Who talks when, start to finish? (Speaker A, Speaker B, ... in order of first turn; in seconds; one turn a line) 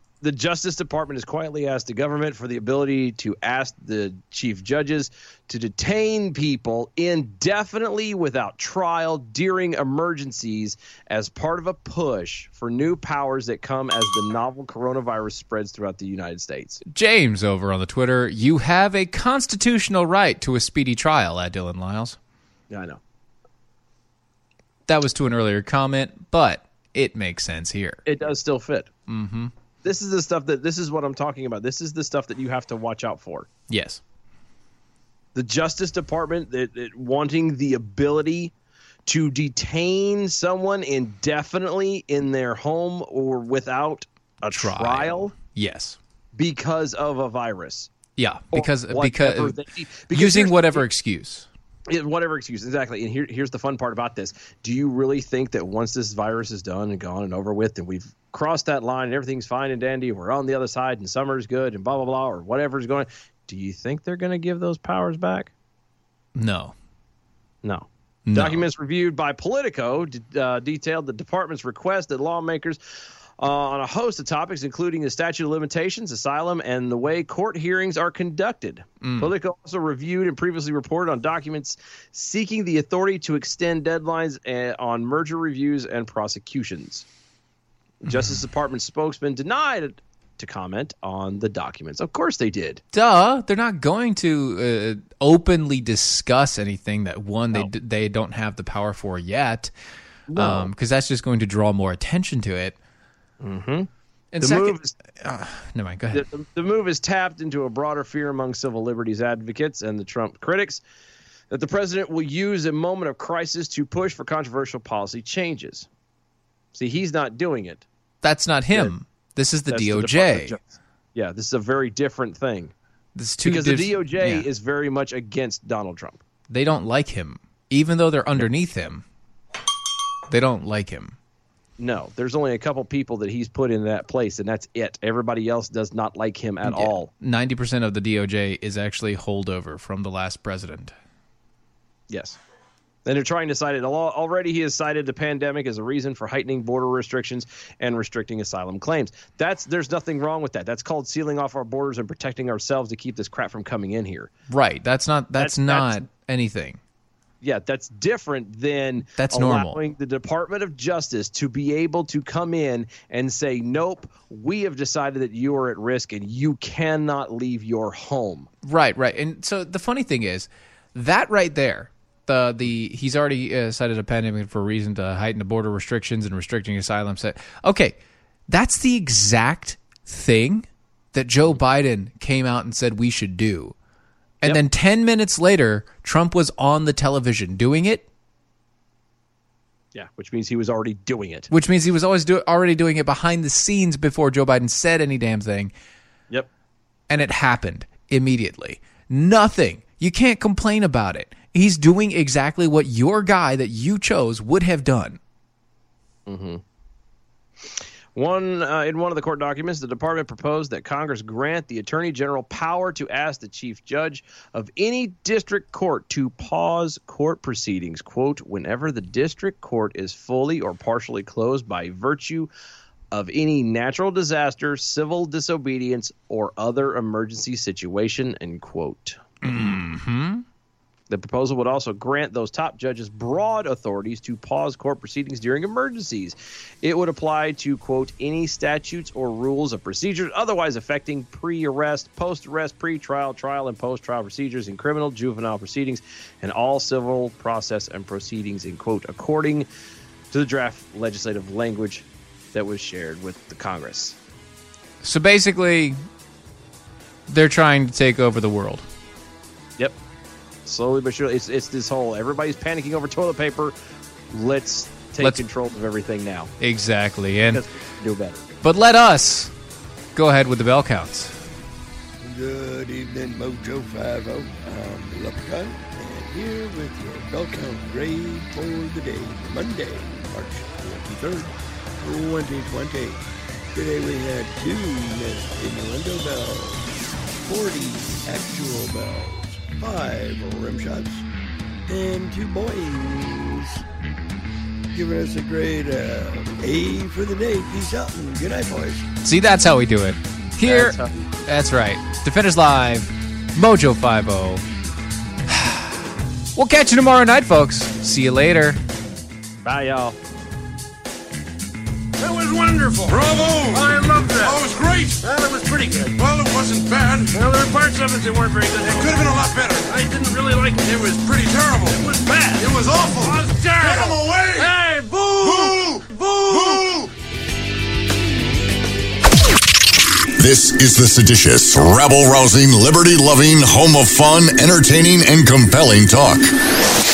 Speaker A: 0.2-16.8
Speaker B: 16.9-22.2
Speaker A: 22.7-23.0
Speaker B: 24.9-28.0
Speaker A: 28.1-28.9
Speaker B: 29.1-29.5
Speaker A: 29.8-33.5
Speaker B: 33.7-34.0
Speaker A: 35.4-38.5
Speaker A: 39.1-45.3
Speaker B: 44.5-46.0
Speaker A: 46.4-47.9
Speaker B: 48.2-49.6
Speaker A: 48.5-50.9
Speaker B: 50.1-51.5
Speaker A: 51.9-65.5
Speaker B: 66.3-66.8
Speaker A: 67.6-72.8
Speaker B: 68.3-68.7
Speaker A: 73.4-87.0
Speaker B: 79.0-79.3
Speaker A: 88.0-92.8
Speaker B: 88.1-88.4
Speaker B: 92.9-99.7
Speaker A: 100.3-100.7
Speaker B: 100.3-102.8
Speaker A: 103.4-104.9
Speaker B: 104.3-106.2
Speaker A: 106.1-110.8
Speaker A: 111.5-115.9
Speaker A: 116.7-117.9
Speaker B: 118.2-120.6
Speaker A: 119.7-122.7
Speaker B: 123.2-124.5
Speaker A: 123.4-126.2
Speaker B: 126.5-129.0
Speaker B: 130.3-131.2
Speaker A: 131.8-137.1
Speaker B: 136.6-140.9
Speaker A: 142.1-142.4
Speaker A: 143.1-154.3
Speaker B: 154.5-156.8
Speaker A: 155.4-156.1
Speaker A: 157.4-168.5
Speaker B: 159.2-159.8
Speaker B: 168.6-178.0
Speaker B: 178.5-183.8
Speaker B: 184.4-188.1
Speaker A: 189.9-191.5
Speaker B: 191.5-195.7
Speaker B: 197.1-205.2
Speaker A: 206.3-206.6
Speaker A: 208.2-222.5
Speaker A: 223.1-229.6
Speaker B: 229.4-230.4
Speaker A: 231.1-249.7
Speaker A: 250.3-254.2
Speaker B: 255.0-256.0
Speaker B: 257.3-258.9
Speaker A: 260.7-263.8
Speaker A: 264.3-266.5
Speaker B: 266.6-267.6
Speaker A: 267.5-268.5
Speaker B: 268.6-269.5
Speaker B: 270.1-271.4
Speaker C: 272.2-283.2
Speaker C: 283.7-286.9
Speaker C: 287.4-291.2
Speaker C: 291.9-293.8
Speaker C: 294.9-299.1
Speaker B: 299.2-304.6
Speaker A: 300.6-301.3
Speaker B: 305.5-308.8
Speaker A: 309.6-310.2
Speaker A: 312.5-313.1
Speaker D: 313.0-315.4
Speaker A: 313.7-314.6
Speaker D: 316.0-317.4
Speaker A: 317.3-319.2
Speaker D: 318.8-320.0
Speaker A: 319.9-320.7
Speaker D: 320.9-327.1
Speaker A: 322.3-322.7
Speaker A: 323.2-324.7
Speaker E: 330.4-336.5